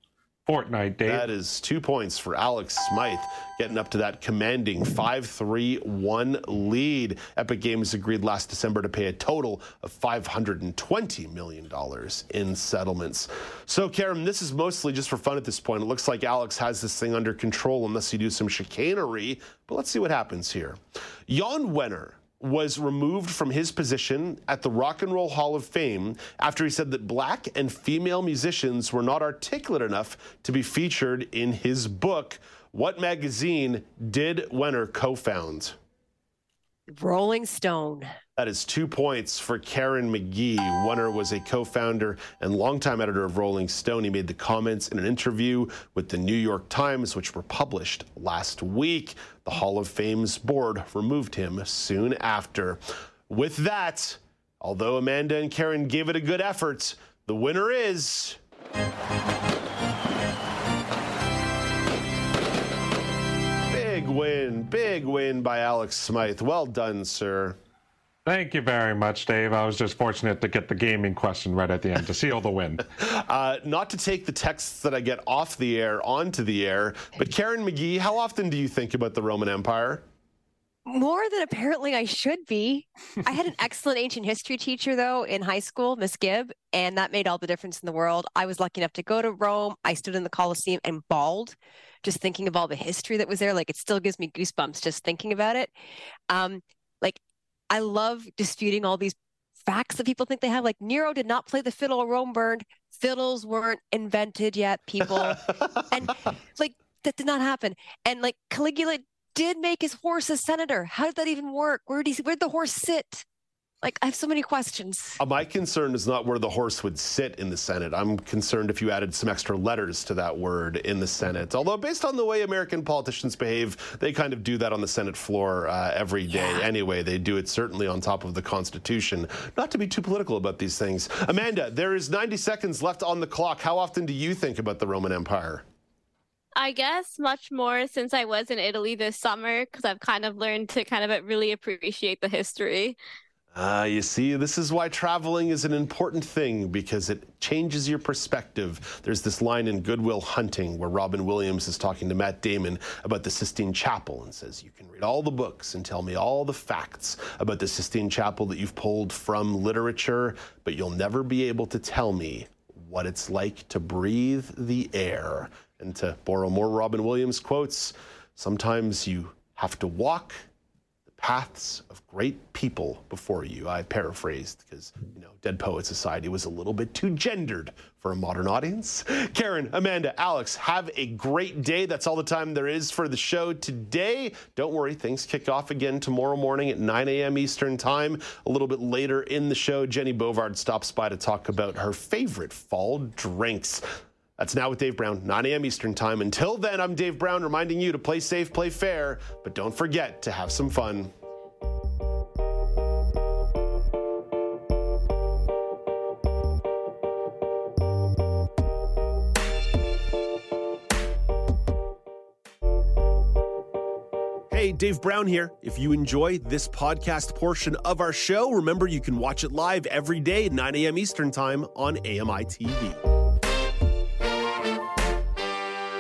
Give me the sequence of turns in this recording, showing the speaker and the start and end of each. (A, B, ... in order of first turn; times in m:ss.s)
0:00.5-0:01.3 A
0:01.1-0:35.8 B
0:36.9-0:38.1 C
0:38.4-0:58.4 B
1:03.7-1:07.6 B
1:08.3-1:12.8 A
1:13.0-1:20.0 B
1:20.9-1:35.7 C
1:36.3-1:37.2 C
1:37.7-1:53.2 C
1:53.8-1:55.2 C
1:55.2-2:15.6 B
2:16.6-2:23.0 D
2:23.6-2:50.4 B
2:51.1-3:13.8 B
3:14.4-3:21.1 B
3:34.5-3:43.0 B